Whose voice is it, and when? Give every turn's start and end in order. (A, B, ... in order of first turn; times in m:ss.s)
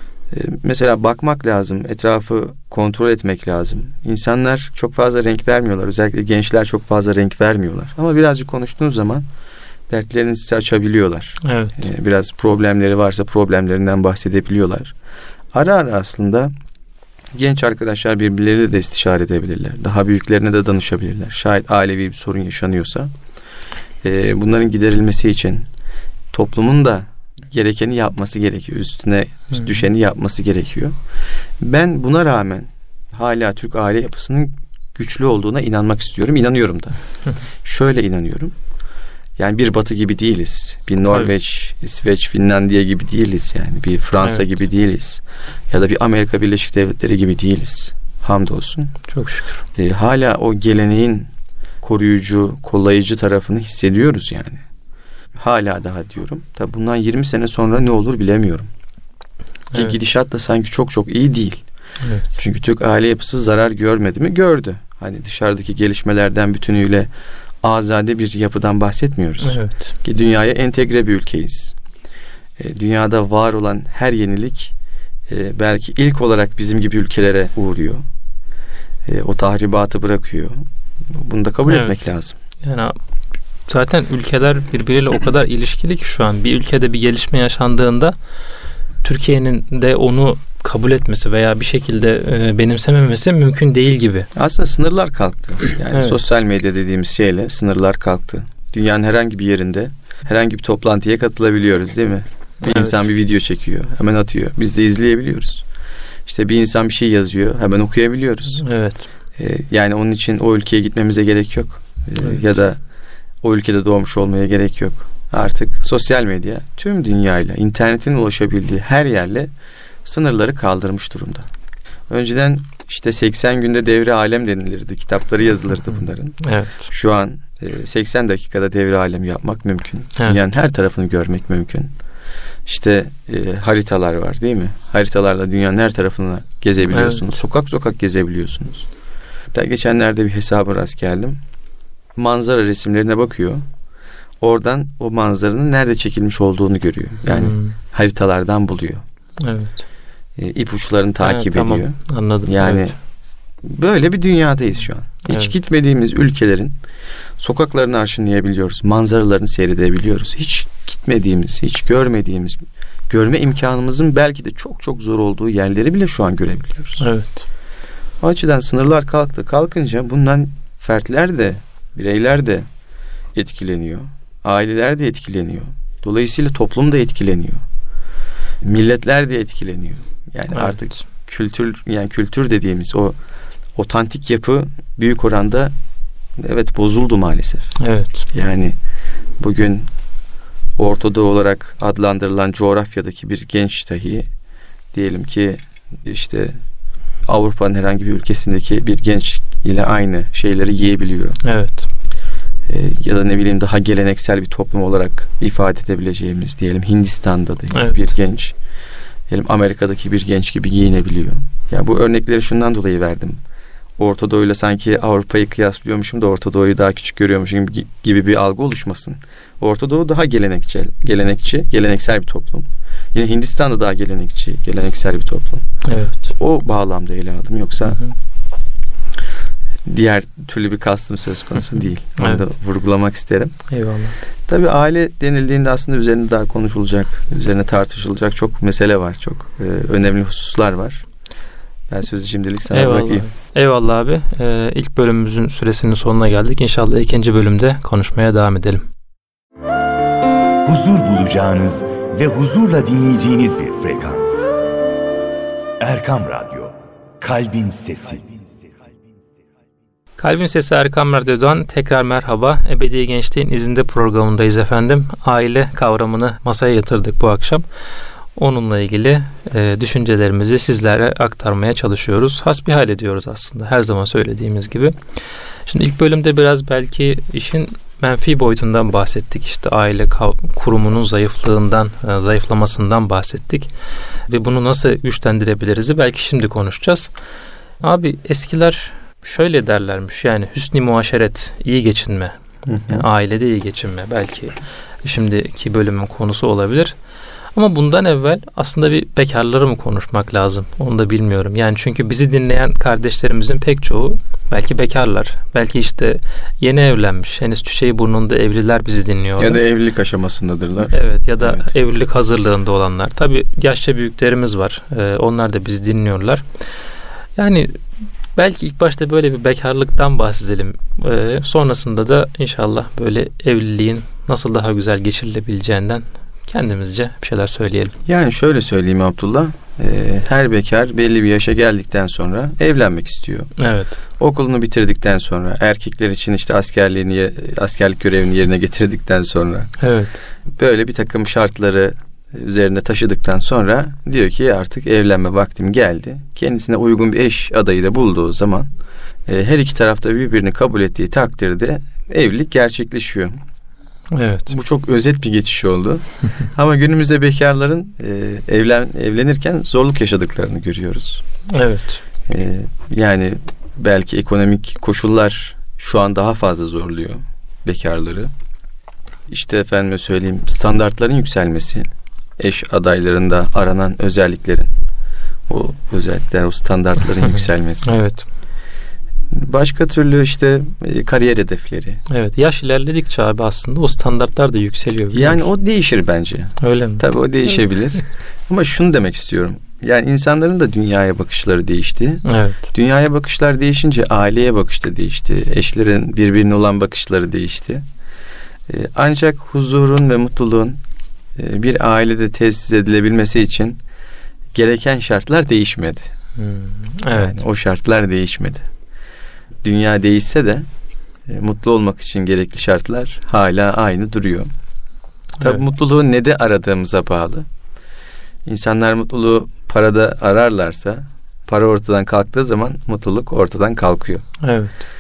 0:00.3-0:09.3 A
0:09.9-0:14.9 A
0:11.4-0:11.8 B
0:15.5-0:16.5 A
0:17.3-0:23.1 A
0:24.0-0:25.7 A
0:26.3-0:31.0 A
0:31.6-0:37.0 A
0:37.6-0:38.6 A
0:39.4-0:49.0 A
0:49.1-0:49.6 B
0:49.8-0:51.3 A
0:51.8-0:54.6 A
0:55.4-0:58.7 A
0:59.7-1:01.6 A
1:02.0-1:02.3 B
1:02.4-1:07.1 A
1:07.6-1:11.8 A
1:09.4-1:09.9 B
1:12.6-1:14.7 A
1:15.3-1:18.0 A
1:19.0-1:22.4 A
1:21.7-1:22.0 B
1:22.6-1:23.0 B
1:23.7-1:28.2 B
1:29.0-1:34.3 B
1:34.4-1:45.6 A
1:42.6-1:43.0 B
1:46.3-1:48.6 A
1:48.5-1:49.1 B
1:49.4-1:52.8 A
1:53.4-1:59.5 A
2:00.0-2:01.5 A
2:02.1-2:11.9 A
2:06.4-2:06.8 B
2:12.7-2:18.9 A
2:16.9-2:17.2 B
2:19.5-2:21.4 A
2:22.2-2:23.6 A
2:24.4-2:29.0 A
2:27.3-2:27.8 B
2:29.4-2:29.8 B
2:30.4-2:33.0 A
2:31.2-2:32.9 B
2:33.6-2:36.8 A
2:35.3-2:35.6 B
2:37.4-2:42.6 A
2:43.1-2:47.1 A
2:47.0-2:47.4 B
2:48.2-2:52.7 A
2:53.3-2:57.6 A
2:58.6-3:03.2 A
3:03.8-3:05.7 A
3:06.4-3:07.8 A
3:07.8-3:08.3 B
3:08.3-3:08.8 A
3:09.4-3:09.9 A
3:10.8-3:14.3 A
3:14.9-3:16.6 A
3:17.3-3:21.4 A
3:21.4-3:21.9 B
3:22.7-3:28.6 A
3:27.7-3:28.1 B
3:29.3-3:33.4 A
3:34.0-3:48.0 A
3:45.8-3:46.3 B
3:49.8-3:53.6 A
3:52.2-3:52.4 B
3:53.7-3:54.2 B
3:54.5-4:01.0 A
4:01.9-4:03.3 A
4:02.7-4:08.9 B
4:10.6-4:14.5 C
4:15.8-4:18.4 C
4:20.2-4:27.6 B
4:28.4-4:35.0 B
4:35.7-4:43.7 B
4:44.3-4:47.1 B
4:47.8-4:57.0 B
4:52.7-4:53.0 A
4:57.6-5:09.6 B
5:09.4-5:11.7 A
5:10.9-5:16.4 B
5:17.4-5:17.8 B
5:18.4-5:28.0 B
5:28.1-5:33.5 A
5:33.6-5:34.0 B
5:34.2-5:39.8 A
5:39.8-5:40.2 B
5:40.6-5:48.7 A
5:49.3-5:53.4 A
5:54.1-5:54.5 B
5:54.5-6:01.2 A
6:01.5-6:02.0 B
6:02.3-6:08.3 A
6:09.3-6:14.7 A
6:15.5-6:18.0 A
6:17.8-6:18.3 B
6:19.3-6:22.0 A
6:22.1-6:25.5 B
6:25.1-6:37.8 A
6:26.6-6:27.0 B
6:32.2-6:32.6 B
6:38.7-6:40.8 A
6:41.4-6:43.8 A
6:44.5-6:46.1 A
6:46.4-6:47.4 B
6:47.1-6:48.7 A
6:49.6-6:50.7 A
6:51.3-6:54.5 A
6:55.4-6:57.5 A
6:58.5-7:04.3 A
7:04.4-7:04.8 B